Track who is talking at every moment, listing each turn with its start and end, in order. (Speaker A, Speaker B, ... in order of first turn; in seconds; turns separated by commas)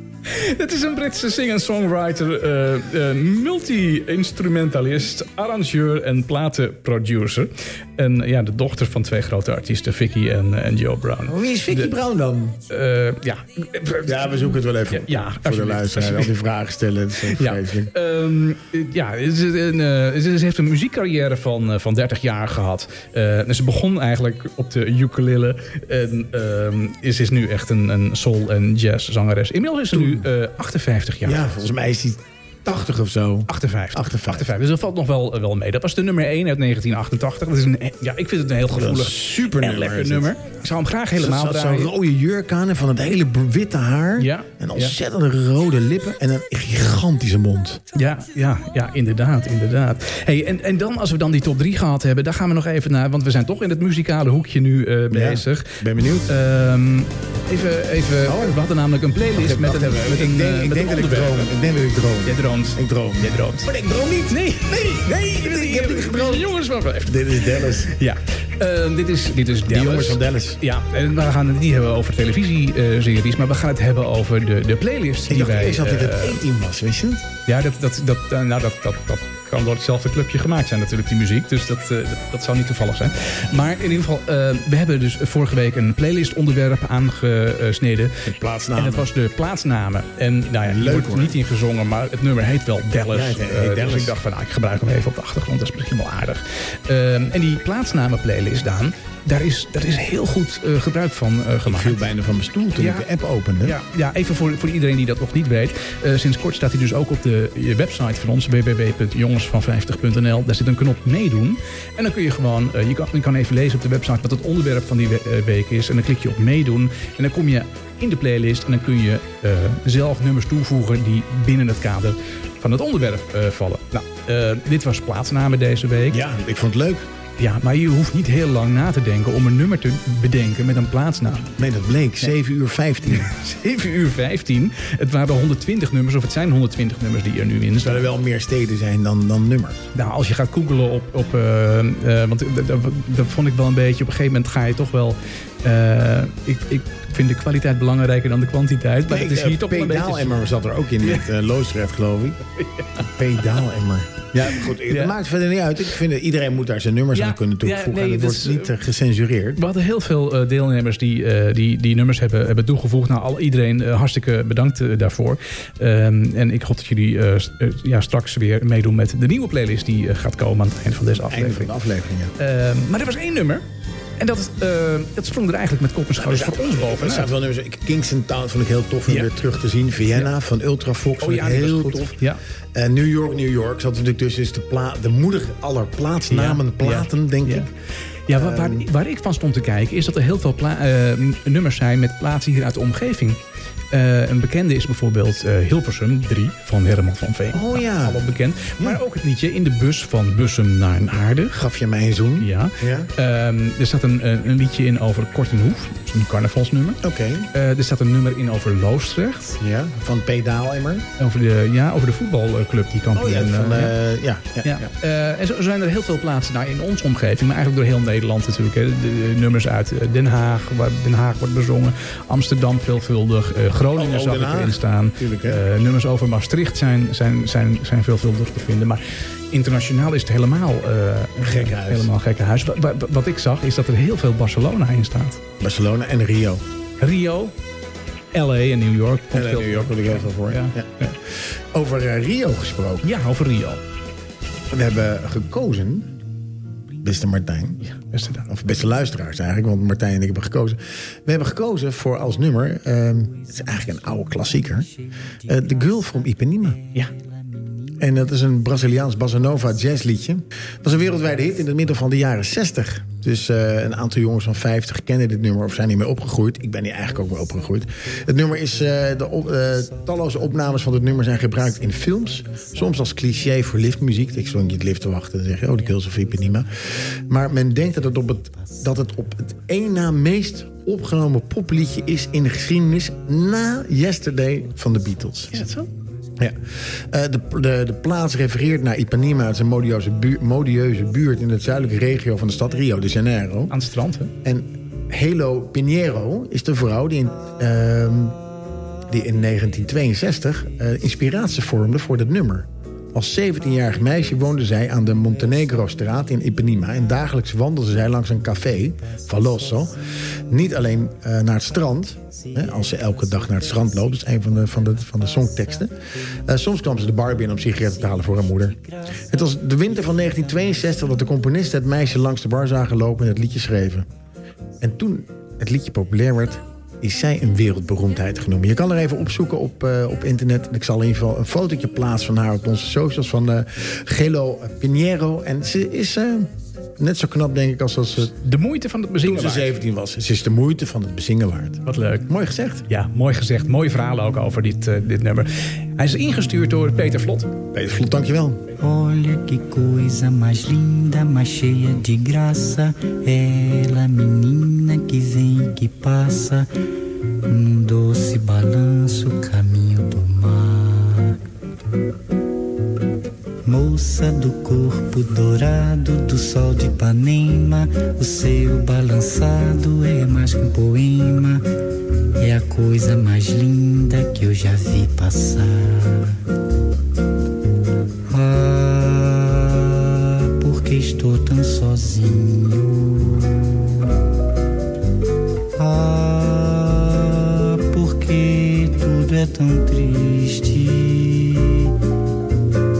Speaker A: 0.2-11.9, Speaker B: 11.2-12.6, Speaker A: 12.7-16.3, Speaker B: 14.0-17.9, Speaker A: 17.3-31.5, Speaker B: 29.9-30.3, Speaker B: 31.2-34.5, Speaker A: 33.5-41.9, Speaker B: 38.7-40.4, Speaker B: 41.1-47.8, Speaker A: 44.2-45.0, Speaker A: 47.9-61.5, Speaker B: 55.1-56.3, Speaker B: 58.2-58.6, Speaker B: 59.3-67.9, Speaker A: 62.2-63.7, Speaker A: 64.3-76.4, Speaker B: 69.7-70.6, Speaker B: 75.3-77.3, Speaker A: 77.5-102.0, Speaker B: 88.2-89.1, Speaker B: 90.6-91.3, Speaker B: 93.1-94.2, Speaker B: 101.7-103.8, Speaker A: 102.8-103.1, Speaker A: 103.6-126.2, Speaker B: 126.1-127.1, Speaker A: 127.4-131.5, Speaker B: 131.6-133.3, Speaker A: 133.1-138.1, Speaker B: 137.8-139.8, Speaker A: 139.9-150.4, Speaker B: 149.1-152.4, Speaker A: 152.6-153.1, Speaker B: 153.0-159.6, Speaker A: 154.7-155.1, Speaker A: 157.1-158.7, Speaker A: 159.6-171.7, Speaker B: 171.3-172.3, Speaker A: 172.4-173.6, Speaker A: 174.2-177.3, Speaker B: 176.2-182.2, Speaker A: 181.2-182.4, Speaker B: 182.7-187.7, Speaker A: 186.3-187.7, Speaker A: 188.3-193.4, Speaker B: 188.3-188.8, Speaker A: 193.9-201.6, Speaker B: 197.5-198.2, Speaker B: 201.5-203.1, Speaker A: 202.4-207.0, Speaker B: 207.0-207.5, Speaker A: 207.5-209.6, Speaker B: 209.6-211.1, Speaker A: 211.2-214.0, Speaker B: 213.1-214.9, Speaker A: 214.6-235.4, Speaker B: 223.9-225.6, Speaker B: 231.4-232.1, Speaker B: 235.6-236.6, Speaker A: 237.0-237.6, Speaker A: 238.3-241.1, Speaker B: 239.3-243.1, Speaker A: 243.0-243.8, Speaker B: 244.7-246.1, Speaker B: 247.0-247.8, Speaker A: 247.8-248.5, Speaker B: 248.5-254.9, Speaker C: 253.5-258.1, Speaker B: 255.5-256.8, Speaker B: 258.0-285.6, Speaker C: 271.6-273.1, Speaker A: 285.5-285.9, Speaker B: 286.4-293.7, Speaker A: 293.7-294.3, Speaker B: 294.4-298.4, Speaker B: 299.1-318.8, Speaker C: 309.1-310.6, Speaker C: 312.2-316.4, Speaker C: 317.5-321.0, Speaker B: 319.3-324.1, Speaker B: 324.8-338.3, Speaker A: 338.2-339.8, Speaker B: 339.2-342.9, Speaker A: 341.8-342.3, Speaker A: 342.9-347.5, Speaker B: 347.7-348.6, Speaker C: 348.8-356.7, Speaker C: 357.4-361.4, Speaker C: 363.6-371.6, Speaker C: 372.4-376.4, Speaker C: 378.3-384.1, Speaker C: 385.8-391.9